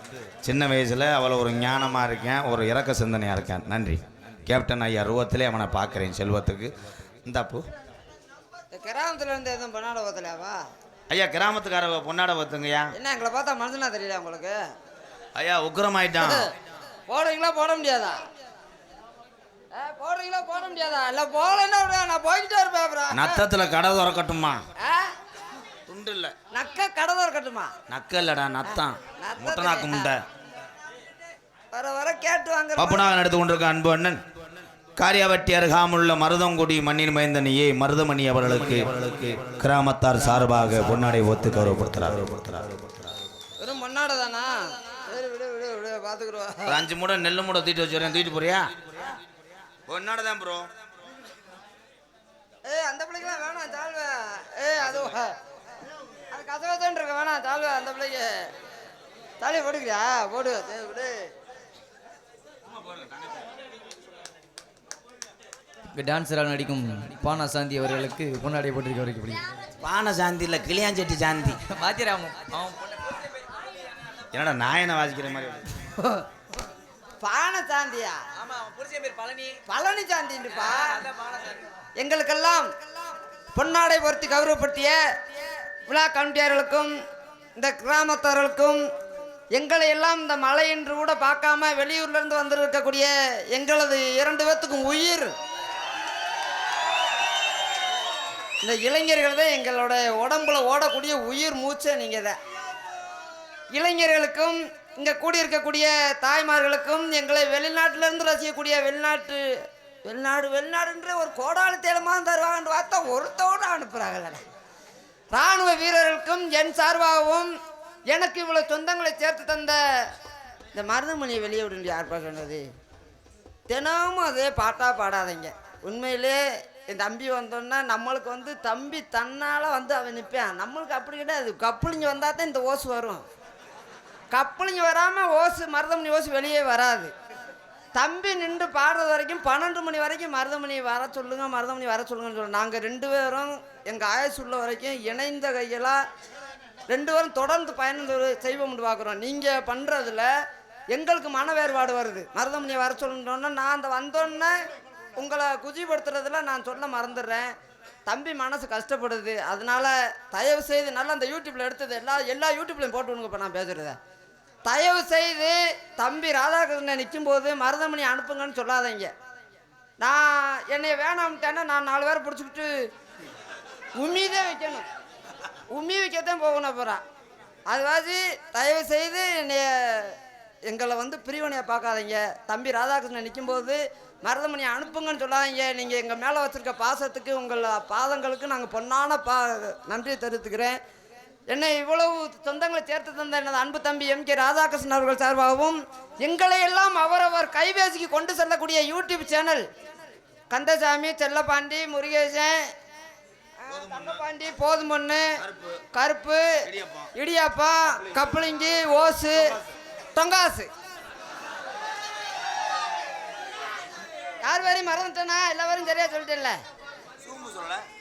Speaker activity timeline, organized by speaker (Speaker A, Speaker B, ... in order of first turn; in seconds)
Speaker A: 0.4-6.7, 7.2-7.7, 11.1-12.9, 15.4-16.5, 23.1-24.6, 25.9-26.3, 27.9-30.2, 32.8-34.2, 35.0-43.1, 46.7-48.6, 49.9-50.7, 69.8-71.6, 74.3-75.7, 203.7-204.2, 205.4-205.8, 206.7-207.1, 217.3-217.8
Speaker B: 8.7-10.6, 12.9-14.6, 16.2-16.5, 17.1-18.2, 19.7-23.4, 24.8-25.1, 26.5-27.7, 28.7-30.1, 31.7-33.1, 43.6-46.8, 52.6-55.4, 56.3-58.5, 59.4-61.3, 77.2-78.2, 79.7-81.0, 82.0-82.7, 83.5-85.0, 85.9-86.9, 87.6-88.8, 89.5-95.3, 98.6-102.4, 103.7-114.4, 115.3-117.5, 118.1-120.1, 120.7-122.7, 123.7-133.2, 134.3-137.1, 137.9-146.0, 146.9-150.3, 150.9-154.6, 155.2-157.5, 158.1-164.0, 164.7-169.1, 170.0-172.9, 174.0-174.9, 175.7-177.0, 177.7-180.2, 180.7-190.8, 191.5-199.6, 200.5-202.7, 203.6-205.4, 205.9-206.4, 207.2-209.6, 210.2-210.7, 214.4-216.6
Speaker C: 65.9-69.5, 71.7-73.2, 78.4-79.6, 81.2-81.6